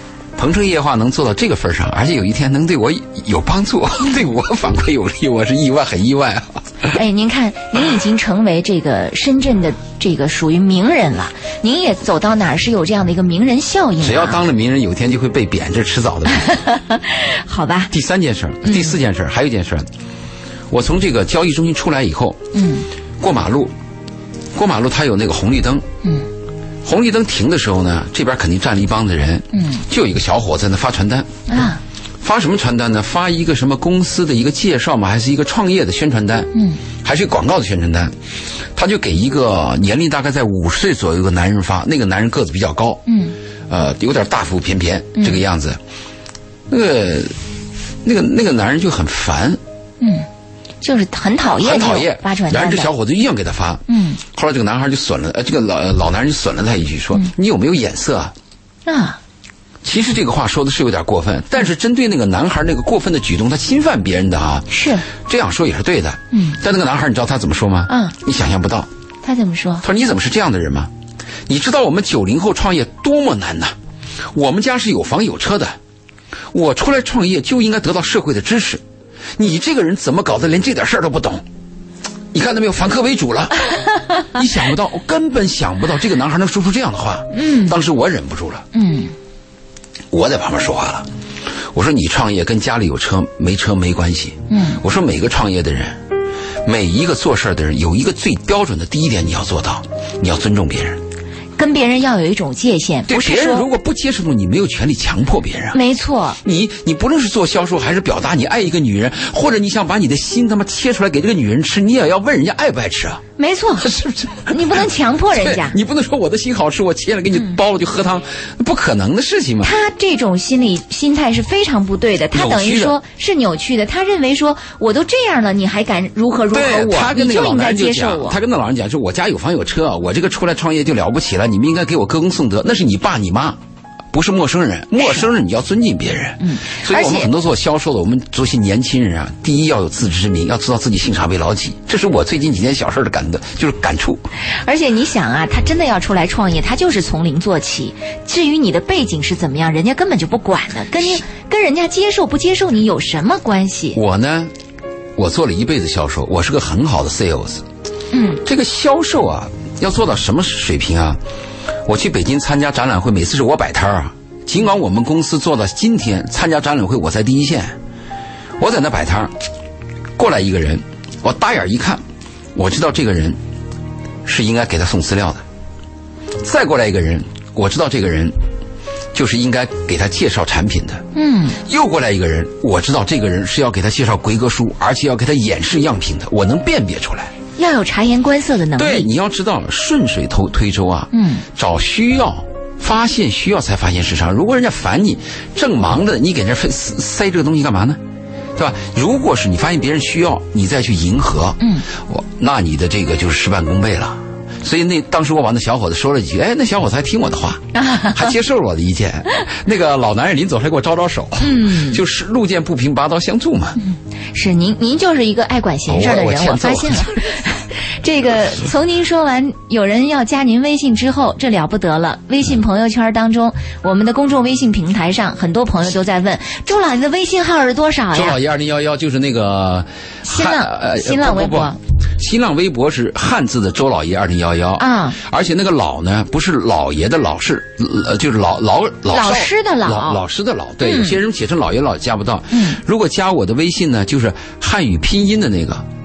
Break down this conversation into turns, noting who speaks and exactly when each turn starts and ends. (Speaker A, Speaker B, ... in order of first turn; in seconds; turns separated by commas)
Speaker A: 0.4-6.9, Speaker B: 6.9-14.4, Speaker A: 14.0-16.5, Speaker B: 16.3-17.9, Speaker A: 17.9-19.9, Speaker B: 18.6-18.9, Speaker A: 20.7-22.4, Speaker B: 22.5-22.9, Speaker A: 23.2-23.7, Speaker A: 24.5-25.9, Speaker A: 26.9-31.4, Speaker B: 29.5-29.8, Speaker B: 31.5-31.8, Speaker A: 32.2-36.5, Speaker B: 36.5-36.8, Speaker A: 37.0-38.1, Speaker A: 38.8-43.0, Speaker B: 43.1-43.4, Speaker A: 43.7-45.8, Speaker A: 46.7-47.4, Speaker A: 48.0-49.6, Speaker B: 50.0-50.3, Speaker B: 50.8-52.9, Speaker A: 51.6-58.3, Speaker B: 53.9-54.2, Speaker B: 58.9-59.2, Speaker A: 59.8-68.9, Speaker B: 64.7-65.1, Speaker B: 66.3-66.6, Speaker B: 67.9-68.2, Speaker B: 69.2-69.8, Speaker A: 69.8-70.9, Speaker A: 71.5-73.7, Speaker A: 74.3-75.8, Speaker A: 76.5-78.8, Speaker A: 79.4-81.4, Speaker A: 82.3-83.7, Speaker A: 84.2-88.7, Speaker B: 87.3-87.8, Speaker B: 88.7-89.1, Speaker A: 90.1-91.1, Speaker A: 91.7-96.0, Speaker B: 94.5-94.8, Speaker A: 96.7-101.0, Speaker B: 101.6-103.7, Speaker A: 103.1-105.8, Speaker B: 105.7-106.4, Speaker A: 106.4-113.2, Speaker B: 113.4-113.9, Speaker A: 113.8-119.7, Speaker B: 114.5-115.8, Speaker B: 119.6-128.4, Speaker A: 122.3-123.0, Speaker A: 126.5-133.6, Speaker A: 134.1-144.2, Speaker B: 136.4-137.3, Speaker B: 144.6-154.0, Speaker A: 153.9-154.5, Speaker A: 155.2-157.7, Speaker B: 158.1-158.4, Speaker A: 158.4-161.2, Speaker A: 161.9-167.8, Speaker A: 168.6-169.3, Speaker A: 170.2-172.0, Speaker A: 172.6-173.4, Speaker A: 174.2-175.4, Speaker A: 176.4-178.3, Speaker A: 179.1-181.1, Speaker B: 181.1-181.6, Speaker A: 181.6-187.3, Speaker B: 187.6-189.1, Speaker A: 188.8-198.0, Speaker B: 191.1-191.4, Speaker A: 198.6-213.8, Speaker B: 201.6-201.9, Speaker B: 207.7-208.3, Speaker B: 211.4-212.0, Speaker B: 213.8-228.4, Speaker A: 215.9-217.3, Speaker A: 228.1-245.8, Speaker B: 230.2-231.8, Speaker B: 234.8-235.2, Speaker B: 239.1-240.2, Speaker B: 240.8-241.2, Speaker B: 242.5-242.8